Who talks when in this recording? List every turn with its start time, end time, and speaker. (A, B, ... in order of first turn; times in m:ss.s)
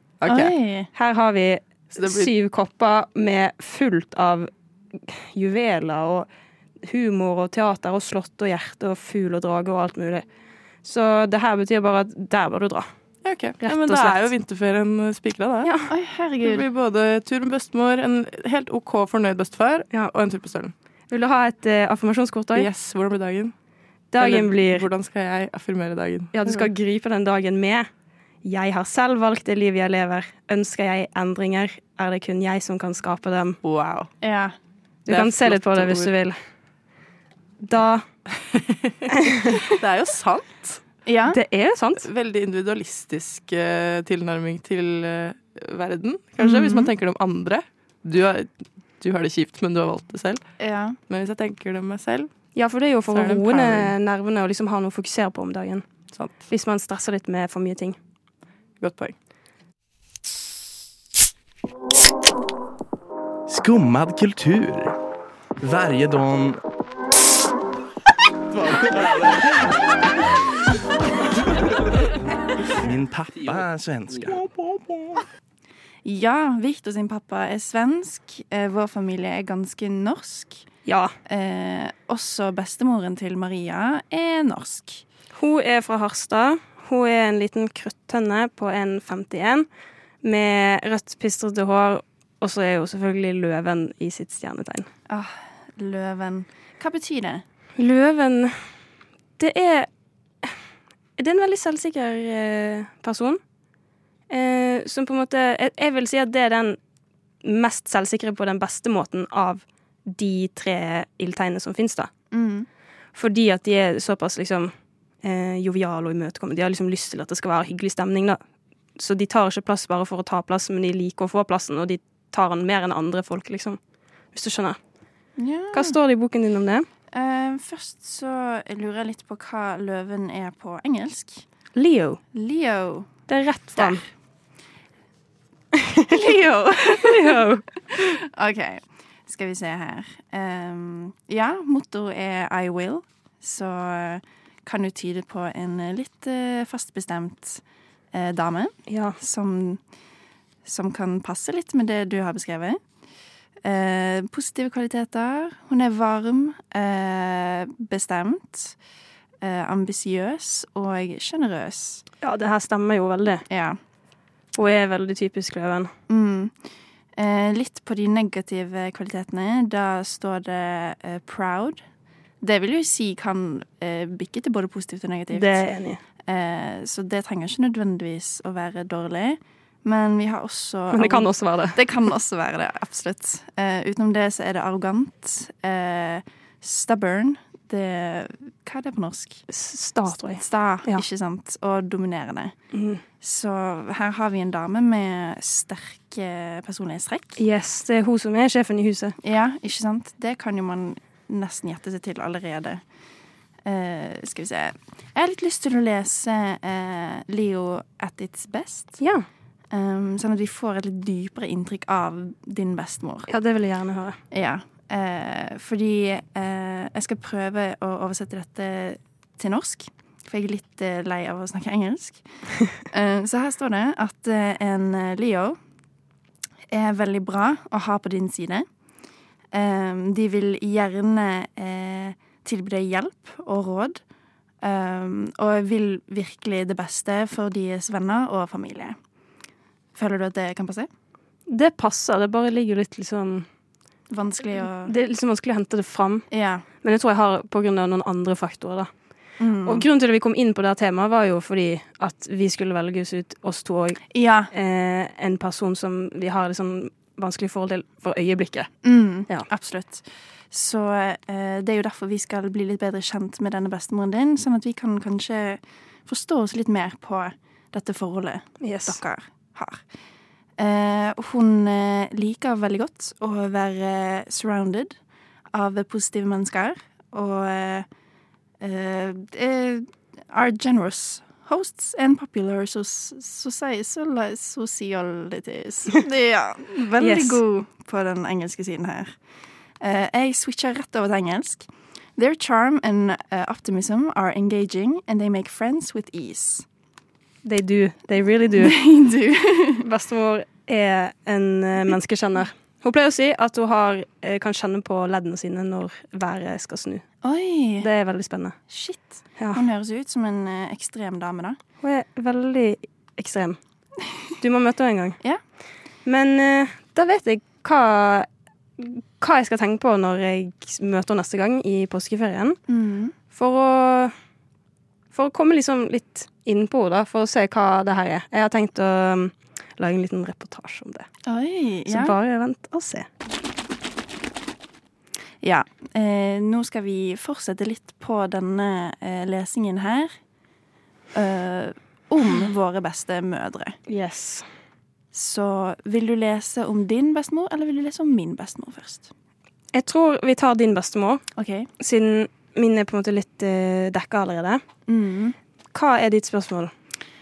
0:00.2-0:00.5 A
0:00.3-0:00.9 B
0:00.9-0:06.3 C
0:01.9-0:02.3 A
0:06.8-0:10.2 C
0:10.8-0:12.9 C
0:13.2-0:15.7 A
0:13.6-0:14.3 C
0:15.6-0:15.9 C
0:15.9-0:16.6 B
0:16.4-0:20.7 A
0:21.1-0:22.7 C
0:22.5-0:23.5 A
0:24.1-0:24.9 C
0:24.2-0:26.7 A
0:26.3-0:27.9 C
0:28.4-0:33.6 C
0:33.6-0:34.1 A
0:34.2-0:34.5 B
0:35.1-0:36.4 C
0:35.1-0:36.1 A
0:37.6-0:38.0 C
0:38.5-0:40.8 A
0:39.1-0:39.6 C
0:41.0-0:41.4 B
0:41.3-0:42.1 C
0:42.0-0:50.4 A
0:46.4-0:46.9 B
0:50.6-0:51.0 B
0:51.1-0:52.3 A
0:52.5-0:55.8 C
0:53.1-0:53.9 A
0:56.1-0:56.4 A
0:56.5-0:58.0 C
0:58.8-0:59.1 A
1:03.5-1:05.0 D
1:05.6-1:06.6 D
1:08.5-1:09.8 D
1:12.7-1:14.5 D
1:16.0-1:20.6 B
1:20.8-1:21.1 C
1:21.3-1:25.0 B
1:25.3-1:29.6 C
1:30.2-1:34.9 C
1:35.1-1:37.4 B
1:37.8-1:38.6 C
1:39.4-1:39.9 C
1:41.2-1:43.4 C
1:44.3-1:46.8 C
1:47.4-1:52.1 C
1:52.3-1:52.7 B
1:53.1-1:54.7 C
1:55.2-1:58.4 C
1:59.0-2:03.8 C
2:04.3-2:04.8 C
2:05.4-2:06.0 B
2:05.7-2:06.9 C
2:07.1-2:11.4 B
2:11.7-2:12.2 C
2:12.3-2:13.1 B
2:13.3-2:14.0 C
2:13.7-2:14.0 B
2:15.9-2:16.2 C
2:16.1-2:17.4 B
2:16.8-2:18.1 C
2:17.9-2:27.6 B
2:28.1-2:29.8 B
2:28.9-2:29.2 C
2:30.6-2:32.8 B
2:33.6-2:38.8 B
2:39.4-2:42.0 B
2:42.2-2:43.4 C
2:43.5-2:43.8 B
2:44.5-2:45.9 C
2:46.1-2:46.6 B
2:47.2-2:51.8 B
2:52.4-2:55.6 B
2:55.3-2:56.0 C
2:56.2-3:09.4 B
3:00.9-3:01.8 C
3:09.5-3:11.0 C
3:10.3-3:12.5 B
3:12.7-3:13.0 C
3:13.2-3:17.4 B
3:17.4-3:19.2 C
3:19.2-3:22.8 B
3:23.6-3:29.0 B
3:29.0-3:29.3 C
3:29.7-3:33.3 B
3:33.3-3:34.2 C
3:34.3-3:42.2 B
3:42.7-3:45.6 B
3:46.7-3:48.7 B
3:49.5-3:54.0 B
3:54.6-3:59.0 B
3:59.9-4:00.9 B
4:01.5-4:03.5 C
4:04.1-4:04.9 B
4:04.6-4:06.2 C
4:06.3-4:06.6 B
4:06.8-4:08.9 C
4:09.4-4:09.8 B
4:09.6-4:18.7 C
4:14.1-4:14.5 B
4:18.8-4:29.8 B
4:28.6-4:29.0 C
4:30.6-4:35.0 B
4:35.5-4:37.9 B
4:38.6-4:49.1 B
4:47.0-4:47.4 C
4:49.8-4:56.6 B
4:57.4-4:58.8 C
4:58.6-4:59.8 B
4:59.8-5:07.0 C
5:07.2-5:07.9 B
5:07.8-5:08.6 C
5:08.7-5:11.6 B
5:09.4-5:09.6 C
5:11.8-5:13.6 C
5:14.4-5:15.2 C
5:16.0-5:22.6 C
5:22.7-5:23.1 B
5:23.3-5:24.1 C
5:25.1-5:31.1 C
5:31.2-5:32.1 B
5:31.9-5:33.1 C
5:35.4-5:40.1 B
5:41.1-5:43.8 B
5:43.9-5:44.4 C
5:45.1-5:49.1 B
5:49.7-5:51.2 C
5:51.4-5:51.7 B
5:51.8-5:54.6 C
5:54.9-5:55.4 B
5:55.7-5:56.7 C